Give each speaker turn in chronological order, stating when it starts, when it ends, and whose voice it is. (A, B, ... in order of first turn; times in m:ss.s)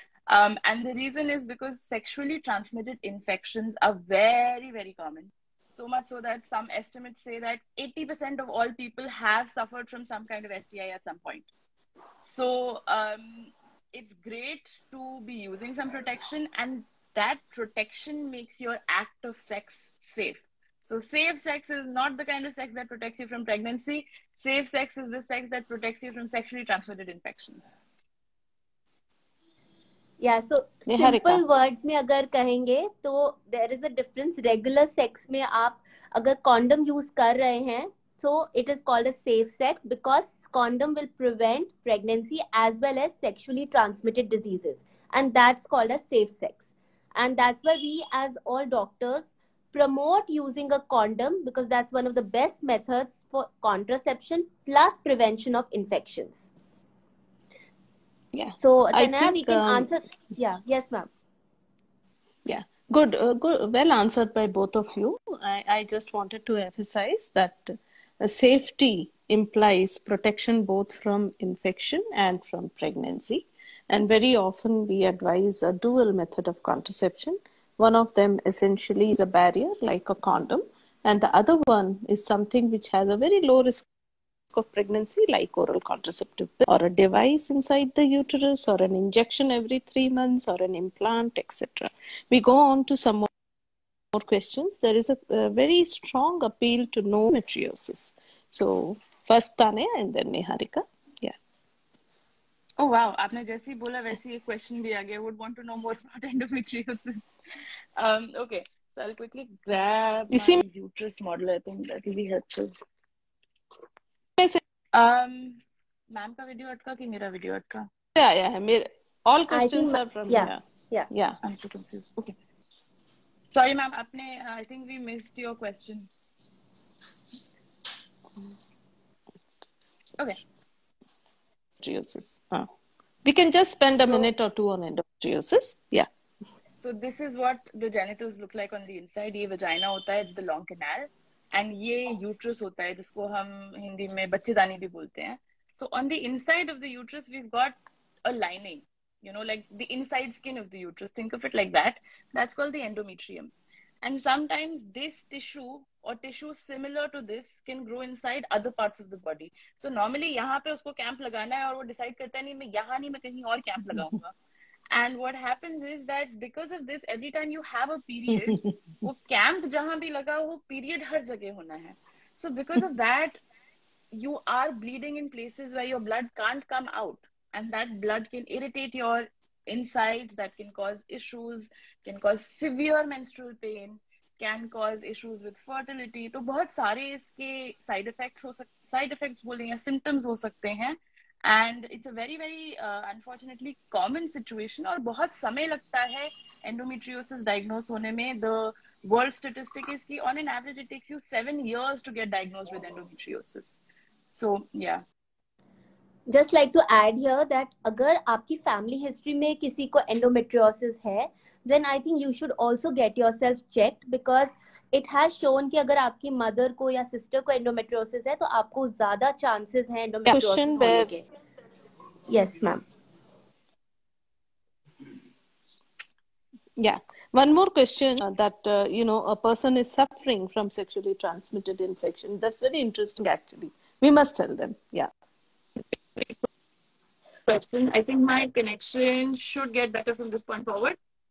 0:00.3-0:11.5 A
0:12.2-0:27.8 A
0:30.2-0:46.6 B
0:30.8-0:31.4 C
0:47.2-0:56.4 B
0:58.3-0:59.9 C
0:58.6-1:01.1 B
1:02.4-1:23.9 C
1:24.5-1:33.3 C
1:34.1-1:41.3 C
1:42.8-1:47.2 A
1:48.0-1:52.7 A
1:50.3-1:50.6 C
1:54.9-1:55.6 A
1:56.1-1:57.9 A
1:58.1-2:01.4 C
1:59.5-2:01.1 B
2:01.4-2:02.4 A
2:03.5-2:06.1 A
2:11.8-2:12.7 C
2:13.2-2:16.1 C
2:14.0-2:14.3 A
2:16.7-2:44.3 A
2:44.9-2:53.4 A
2:54.1-3:23.8 A
3:24.3-3:25.0 A
3:26.3-3:41.2 B
3:40.2-3:41.1 C
3:42.3-3:42.8 B
3:46.8-3:55.1 C
3:56.2-3:56.4 A
3:57.5-4:01.0 A